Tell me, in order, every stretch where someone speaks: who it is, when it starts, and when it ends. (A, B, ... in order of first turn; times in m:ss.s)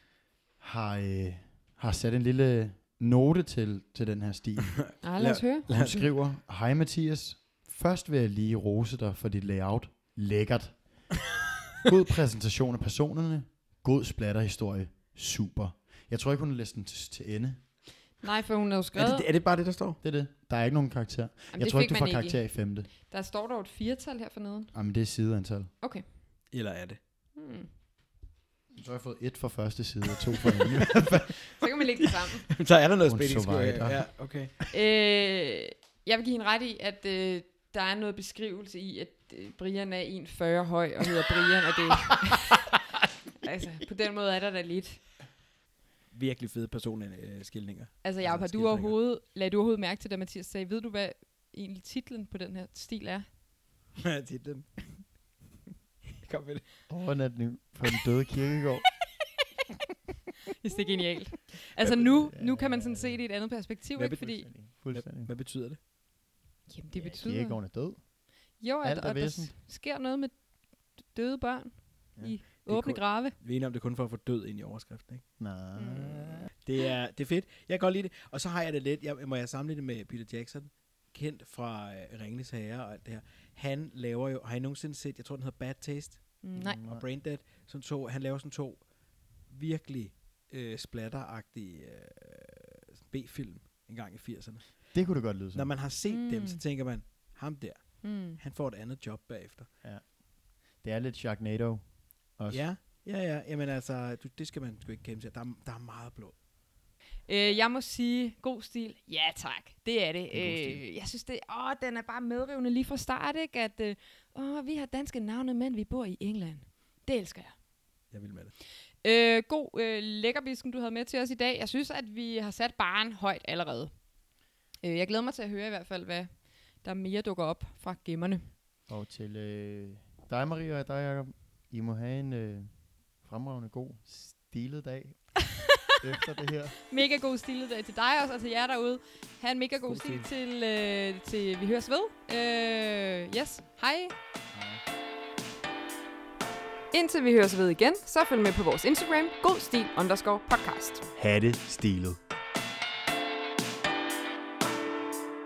0:00.6-0:04.8 A
0:04.7-0:06.1 B
0:05.0-0:05.7 C
0:05.7-0:10.8 A
0:11.8-0:17.6 A
0:18.2-0:19.3 C
0:19.0-0:20.0 B
0:20.0-0:22.9 A
0:21.5-0:22.4 C
0:22.9-0:24.7 C
0:24.7-0:25.7 A
0:26.5-0:27.0 B
0:27.4-0:27.7 C
0:28.7-0:31.4 A
0:30.5-0:31.0 B
0:31.4-0:32.5 C
0:32.5-0:34.6 B
0:33.1-0:34.1 A
0:34.7-0:42.6 C
0:43.4-0:45.0 C
0:46.1-0:49.0 B
0:48.0-0:53.3 C
0:54.0-0:55.1 B
0:56.2-0:56.7 B
0:56.9-0:58.9 A
1:00.6-1:04.5 C
1:02.1-1:03.2 A
1:04.0-1:05.8 B
1:04.5-1:05.3 A
1:06.7-1:07.6 C
1:07.0-1:08.0 A
1:08.6-1:13.4 C
1:08.8-1:09.5 A
1:12.7-1:15.3 B
1:15.4-1:16.5 A
1:15.8-1:16.4 C
1:16.6-1:28.9 B
1:26.4-1:26.8 C
1:26.6-1:27.0 A
1:29.5-1:34.9 B
1:34.9-1:35.7 A
1:35.5-1:39.7 B
1:36.1-1:36.6 C
1:38.0-1:38.4 C
1:40.8-1:41.8 A
1:42.4-1:42.6 A
1:42.5-1:46.4 B
1:47.3-1:57.6 C
1:50.6-1:50.8 A
1:58.1-1:58.5 B
1:59.0-2:03.9 C
2:04.8-2:08.5 C
2:08.9-2:15.3 A
2:16.0-2:16.8 A
2:16.8-2:24.2 C
2:19.9-2:20.3 B
2:24.5-2:24.8 A
2:26.9-2:31.1 C
2:31.2-2:32.2 A